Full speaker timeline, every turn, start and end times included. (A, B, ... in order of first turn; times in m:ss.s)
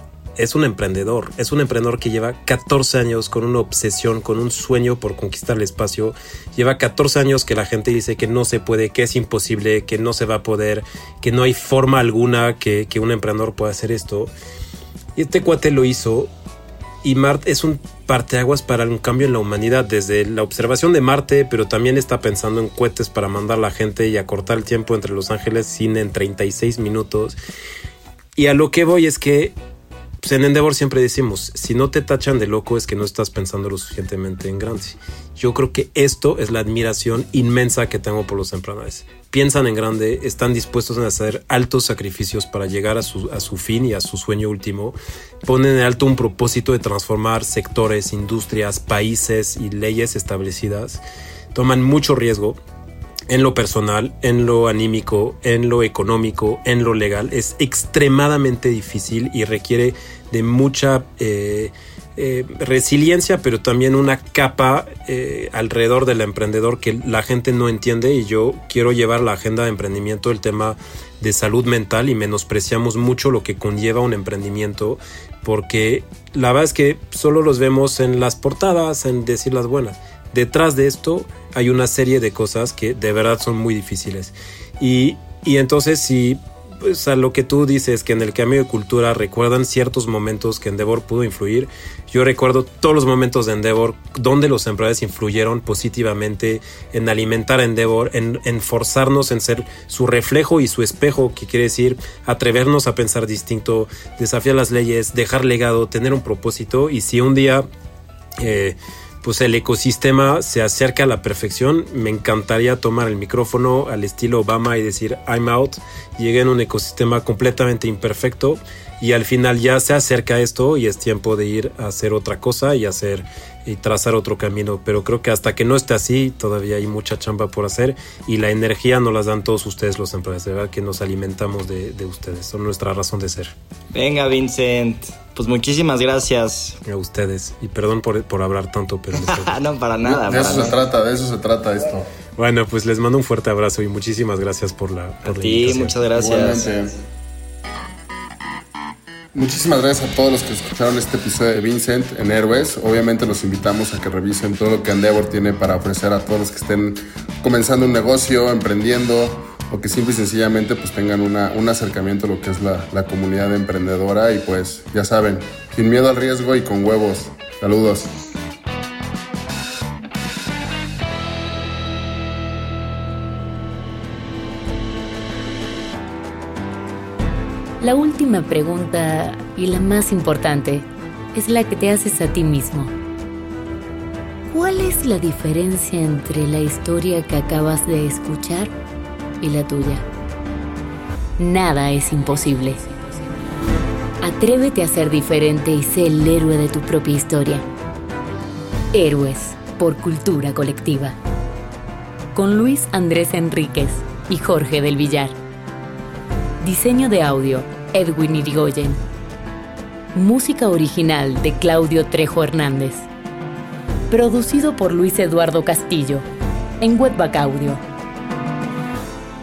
0:00.4-0:14.3 A
0:15.2-0:16.3 A
0:17.0-0:27.4 A
0:28.4-0:29.5 A
0:30.2-0:51.0 A
0:51.5-0:52.6 A
0:53.3-1:47.6 A
1:48.4-2:13.5 A
2:13.9-2:16.8 B
2:16.8-2:19.6 A
2:19.1-2:20.8 B
2:20.0-2:22.1 C
2:22.4-2:26.0 A
2:25.2-2:26.7 B
2:26.2-2:27.0 C
2:29.3-2:48.1 C
2:57.8-3:02.9 D
3:04.5-3:08.7 D
3:09.4-3:10.0 D
3:11.4-3:12.9 D
3:14.2-3:17.6 D
3:18.9-3:21.2 D
3:22.3-3:25.3 D
3:26.6-3:29.0 D
3:30.1-3:33.1 D
3:34.1-3:36.2 D
3:36.8-3:37.8 D